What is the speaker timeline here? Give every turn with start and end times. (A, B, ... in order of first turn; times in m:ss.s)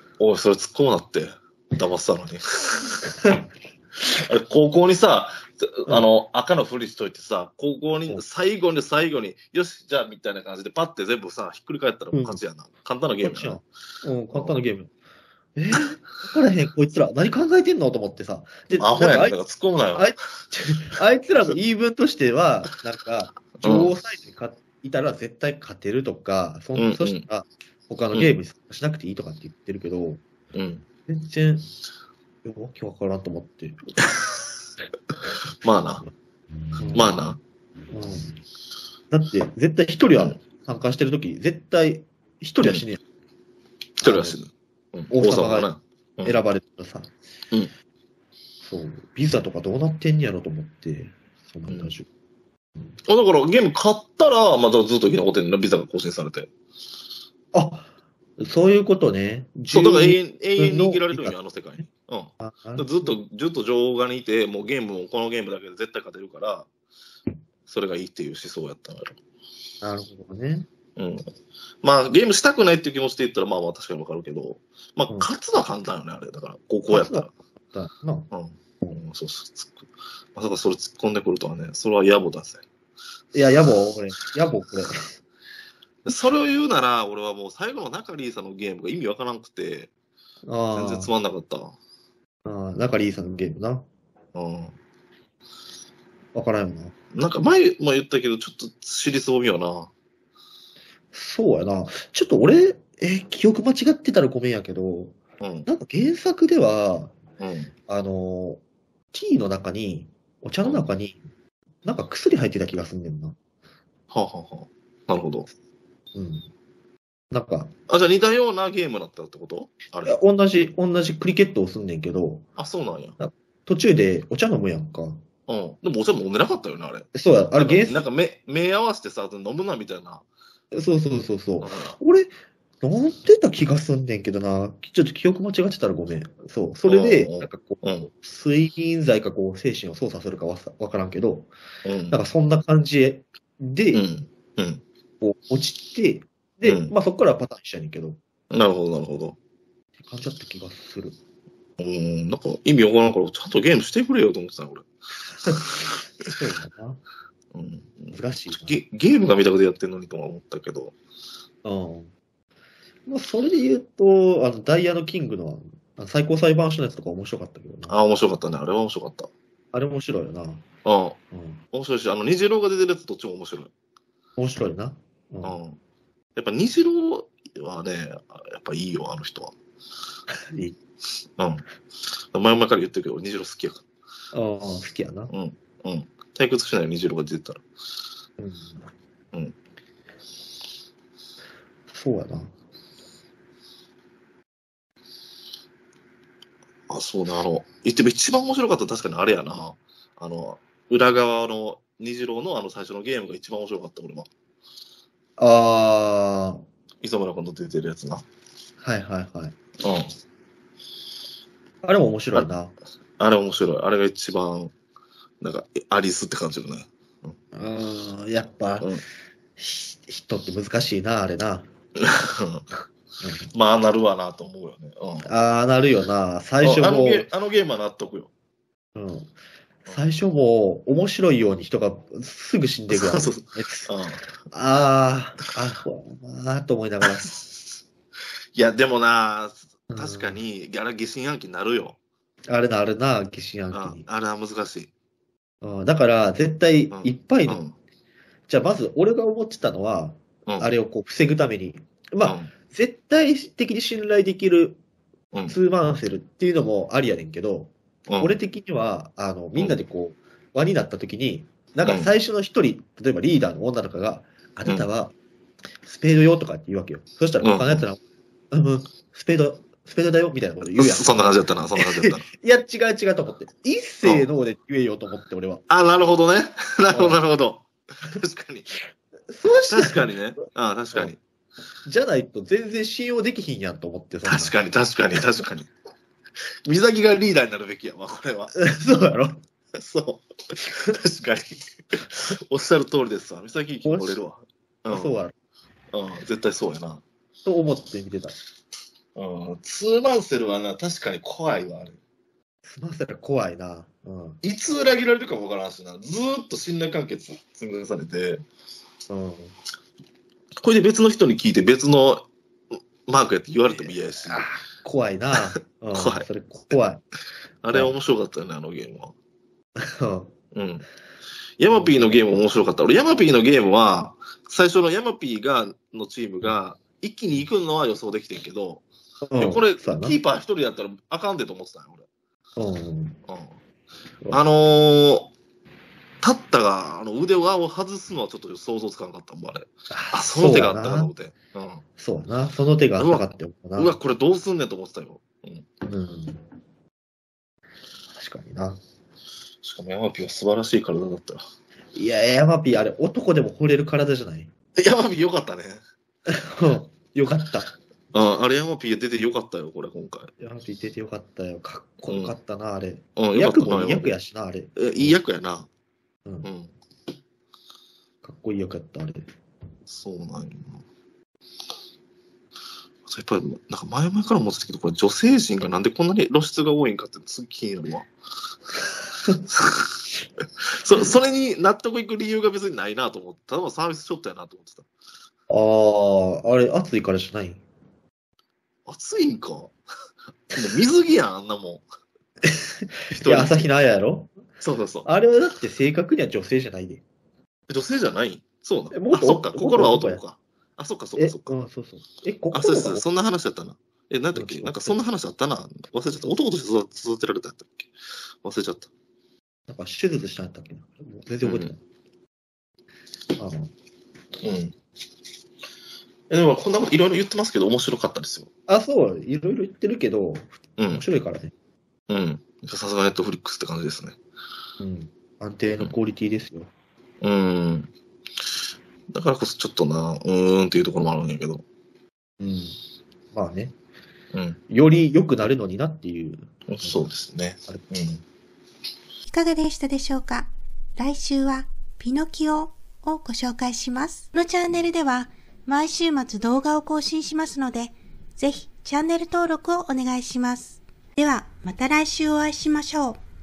0:00.2-0:03.0 A
0:04.0-0:13.6 A
0:12.1-0:12.4 B
0:13.2-0:14.9 B
0:14.3-0:14.6 A
0:15.6-0:19.4 B
0:18.7-0:20.2 A
0:19.9-0:30.2 B
0:23.6-0:23.9 A
0:26.8-0:27.3 A
0:30.5-0:30.8 A
0:31.1-0:31.7 B
0:32.4-0:33.8 B
0:35.6-0:36.1 A
0:36.8-0:37.2 B
0:36.9-0:37.4 A
0:37.9-0:38.4 B
0:39.1-0:43.0 B
0:44.0-0:46.4 A
0:44.0-0:44.4 B
0:45.1-0:45.7 B
0:46.2-0:47.1 B
0:48.6-0:52.1 B
0:53.1-0:56.5 A
0:57.5-1:01.4 B
0:59.7-1:06.7 A
1:02.4-1:03.1 B
1:07.7-1:09.2 A
1:09.8-1:10.7 B
1:11.0-1:11.3 A
1:11.8-1:17.3 A
1:16.9-1:18.3 B
1:18.3-1:22.6 A
1:23.3-1:25.0 B
1:26.0-1:29.9 A
1:30.5-1:31.1 B
1:30.7-1:31.8 A
1:32.4-1:33.9 B
1:34.4-1:34.7 A
1:36.3-1:36.9 B
1:37.1-1:39.9 A
1:41.1-1:47.2 B
1:45.4-1:45.7 A
1:47.4-1:47.7 A
1:47.9-1:51.2 B
1:50.6-1:50.9 A
1:51.8-1:53.4 B
1:54.1-1:55.5 A
1:56.1-1:56.5 B
1:57.3-1:57.7 B
1:57.9-2:00.2 A
2:00.0-2:02.5 B
2:02.6-2:03.2 A
2:03.2-2:05.2 B
2:05.5-2:10.2 A
2:07.1-2:08.1 B
2:10.7-2:21.5 B
2:11.6-2:12.0 A
2:16.8-2:18.1 A
2:21.8-2:22.2 A
2:22.1-2:24.1 B
2:23.9-2:24.8 A
2:25.2-2:28.2 B
2:26.6-2:26.9 A
2:28.5-2:29.4 A
2:30.0-2:31.2 B
2:31.8-2:34.9 A
2:35.5-2:35.8 A
2:36.3-2:37.0 B
2:37.5-2:41.0 A
2:38.1-2:38.7 B
2:41.6-2:42.1 B
2:43.1-2:48.0 B
2:47.9-2:49.3 A
2:49.7-2:50.7 B
2:50.8-2:51.2 A
2:51.3-2:51.6 B
2:51.7-2:53.7 A
2:54.4-2:55.6 B
2:55.4-2:55.8 A
2:56.4-2:59.5 A
3:00.5-3:00.8 B
3:01.4-3:01.6 A
3:02.3-3:03.8 A
3:04.3-3:05.3 B
3:05.3-3:07.6 A
3:08.4-3:08.9 B
3:11.9-3:12.5 B
3:16.9-3:24.3 A
3:25.4-3:26.6 B
3:27.0-3:28.2 A
3:28.8-3:29.6 B
3:29.8-3:30.1 A
3:31.8-3:32.7 B
3:33.2-3:34.7 A
3:35.4-3:37.4 A
3:37.5-3:39.0 B
3:39.6-3:41.7 B
3:42.0-3:42.7 A
3:43.2-3:43.5 B
3:43.5-3:45.3 A
3:45.2-3:47.3 B
3:46.6-3:48.3 A
3:49.0-3:53.9 B
3:52.9-3:54.3 A
3:54.5-3:57.3 B
3:57.1-3:57.5 A
3:58.6-4:02.0 A
3:59.9-4:00.4 B
4:02.5-4:04.0 B
4:03.7-4:04.9 A
4:05.6-4:07.6 B
4:06.9-4:07.8 A
4:08.5-4:14.8 B
4:12.2-4:12.5 A
4:15.5-4:25.2 B
4:18.1-4:18.4 A
4:21.8-4:22.1 A
4:25.8-4:28.0 B
4:27.4-4:27.9 A
4:28.5-4:35.6 B
4:30.8-4:32.3 A
4:35.7-4:38.7 A
4:36.9-4:37.2 B
4:39.3-4:40.1 B
4:39.7-4:41.2 A
4:41.8-4:44.6 B
4:44.2-4:45.7 A
4:46.7-4:48.5 A
4:48.5-4:49.4 B
4:49.8-4:55.2 A
4:53.8-4:54.2 B
4:54.9-4:55.3 B
4:55.9-4:57.0 A
4:57.4-4:58.4 B
4:59.2-5:02.0 A
5:02.6-5:04.4 B
5:04.4-5:08.4 A
5:09.1-5:09.6 B
5:10.6-5:12.3 A
5:13.1-5:14.5 A
5:14.3-5:17.0 B
5:15.9-5:16.3 A
5:17.6-5:19.2 A
5:17.7-5:18.0 B
5:19.8-5:20.3 B
5:20.5-5:20.9 A
5:21.6-5:28.8 A
5:21.7-5:22.4 B
5:29.2-5:30.2 B
5:29.4-5:32.1 A
5:32.6-5:33.2 B
5:33.3-5:33.6 A
5:34.3-5:35.3 A
5:36.2-5:41.8 A
5:39.9-5:41.1 B
5:42.0-5:44.0 B
5:43.0-5:45.7 A
5:45.8-5:46.4 B
5:48.2-5:48.8 B
5:49.6-5:51.4 A
5:51.9-5:54.5 B
5:54.8-5:55.8 A
5:56.3-5:57.7 B
5:58.1-6:00.3 A
6:00.4-6:05.2 B
6:02.1-6:02.4 A
6:03.2-6:04.2 A
6:04.8-6:05.7 A
6:06.4-6:06.7 A
6:08.2-6:09.3 B
6:09.9-6:10.8 A
6:13.1-6:18.1 A
6:19.4-6:20.0 A
6:20.8-6:24.9 A
6:25.5-6:27.6 B
6:28.9-6:29.7 A
6:30.5-6:31.8 A
6:32.4-6:34.3 B
6:33.1-6:33.7 A
6:34.6-6:35.1 A
6:35.0-6:37.0 B
6:37.7-6:41.6 A
6:38.9-6:40.2 B
6:41.2-6:43.0 B
6:42.5-6:47.9 A
6:44.4-6:45.0 B
6:48.4-6:48.9 A
6:49.7-6:51.8 B
6:51.4-6:51.7 A
6:53.4-6:53.7 B
6:54.4-6:54.8 A
6:56.3-6:58.5 A
6:58.7-7:01.5 B
7:00.8-7:01.1 A
7:02.1-7:04.2 A
7:04.8-7:06.7 B
7:07.2-7:07.9 A
7:09.1-7:11.6 A
7:12.4-7:12.8 B
7:13.3-7:13.8 B
7:14.3-7:14.6 A
7:14.7-7:17.0 B
7:16.7-7:18.2 A
7:19.3-7:33.2 C